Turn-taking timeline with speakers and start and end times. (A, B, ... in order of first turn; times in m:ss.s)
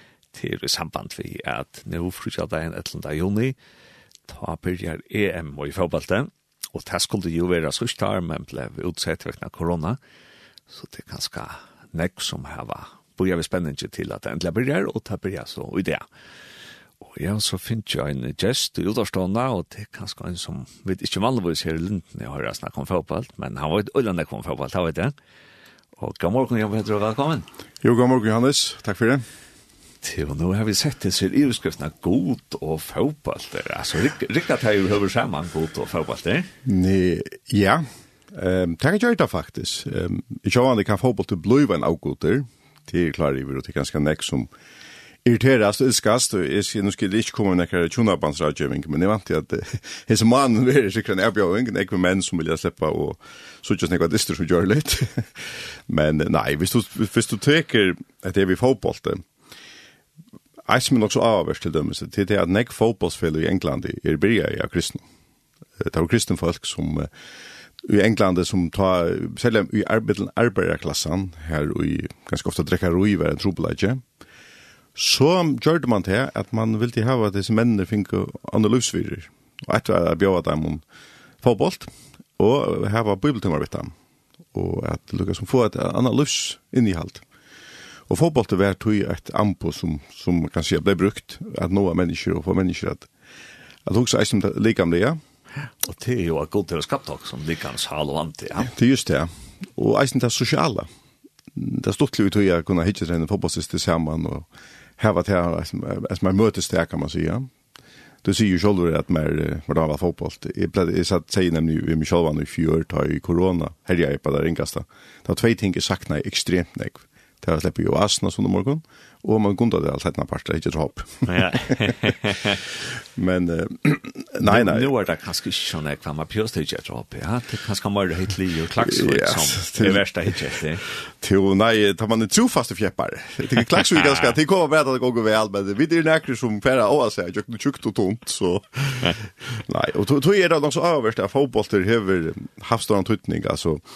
0:00.3-0:03.6 A
0:04.3-0:10.0 A
0:10.7-0:16.0 A
0:17.0-0:25.1 A
0:26.0-0:27.5 A
0:27.8-0:29.2 B
0:30.0-0:36.5 A
0:36.6-0:44.5 B
0:45.2-0:59.2 B
1:00.6-1:05.0 B
1:05.8-1:07.1 B
1:07.8-1:14.0 B
1:14.9-1:20.8 B
1:21.4-1:23.9 B
1:24.5-1:27.2 B
1:28.1-1:33.1 B
1:33.8-1:35.2 B
1:35.8-1:38.7 A
1:38.6-1:40.9 B
1:41.5-1:44.5 B
1:45.0-1:47.5 B
1:48.2-2:01.9 B
2:01.3-2:02.6 A
2:03.1-2:04.9 B
2:04.4-2:10.8 A
2:08.8-2:10.0 B
2:11.1-2:23.8 B
2:13.9-2:14.3 A